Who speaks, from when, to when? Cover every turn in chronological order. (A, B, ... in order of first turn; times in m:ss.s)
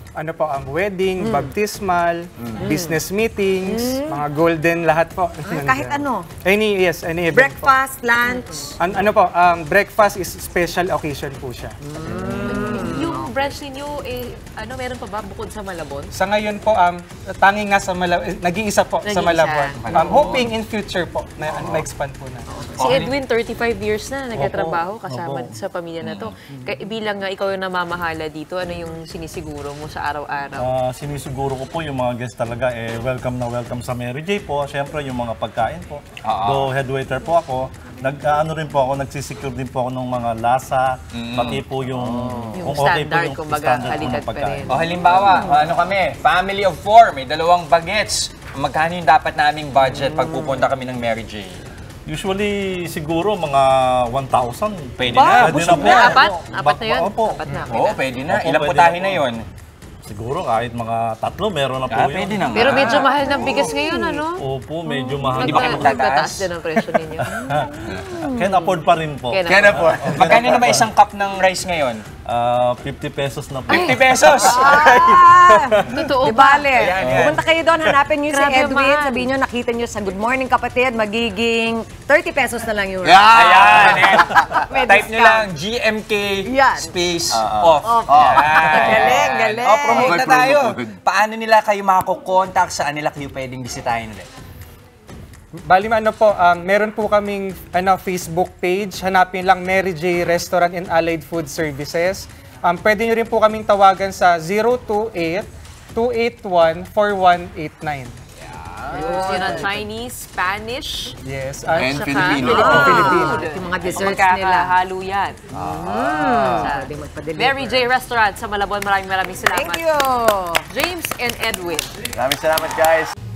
0:00.2-0:07.8 A
0:01.2-0:01.5 B
0:02.6-0:03.0 B
0:03.6-0:04.2 B
0:05.4-0:06.3 B
0:07.3-0:08.8 B
0:08.3-0:08.6 C
0:08.8-0:11.8 A
0:11.8-0:13.3 B
0:12.0-0:13.0 D
0:12.4-0:16.1 C
0:16.1-0:22.4 A
0:19.0-0:20.4 C
0:19.8-0:20.5 D
0:21.5-0:21.8 D
0:22.5-0:30.7 C
0:22.8-0:23.1 D
0:24.4-0:25.6 E
0:26.0-0:26.3 D
0:30.6-0:44.8 E
0:36.2-0:36.7 D
0:41.1-0:41.6 D
0:42.0-0:42.6 F
0:42.5-0:45.2 C
0:44.7-0:51.6 D
0:52.1-0:59.3 E
0:55.0-0:56.2 D
0:55.1-0:58.0 C
0:57.5-0:59.5 D
1:00.0-1:06.0 E
1:01.9-1:03.1 D
1:02.5-1:10.0 C
1:05.4-1:06.5 D
1:07.2-1:10.9 E
1:07.9-1:08.4 B
1:09.5-1:10.3 F
1:10.1-1:12.0 D
1:12.2-1:16.0 E
1:13.7-1:15.3 D
1:13.7-1:25.5 B
1:14.5-1:14.9 C
1:15.6-1:16.9 C
1:16.8-1:17.4 D
1:17.0-1:17.4 F
1:18.2-1:19.3 C
1:23.0-1:24.8 F
1:23.3-1:34.3 D
1:26.4-1:26.9 B
1:27.3-1:29.3 F
1:27.8-1:30.3 B
1:29.9-1:30.9 F
1:35.7-1:48.1 A
1:48.9-1:49.5 B
1:48.9-1:51.2 C
1:49.1-1:49.7 F
1:51.2-1:52.0 A
1:51.8-1:53.1 F
1:51.8-1:55.4 C
1:52.4-1:54.7 B
1:52.6-1:53.4 A
1:55.5-1:56.7 F
1:55.6-1:57.9 B
1:56.5-1:59.9 C
1:59.5-2:00.6 B
2:00.7-2:01.9 C
2:02.2-2:03.1 F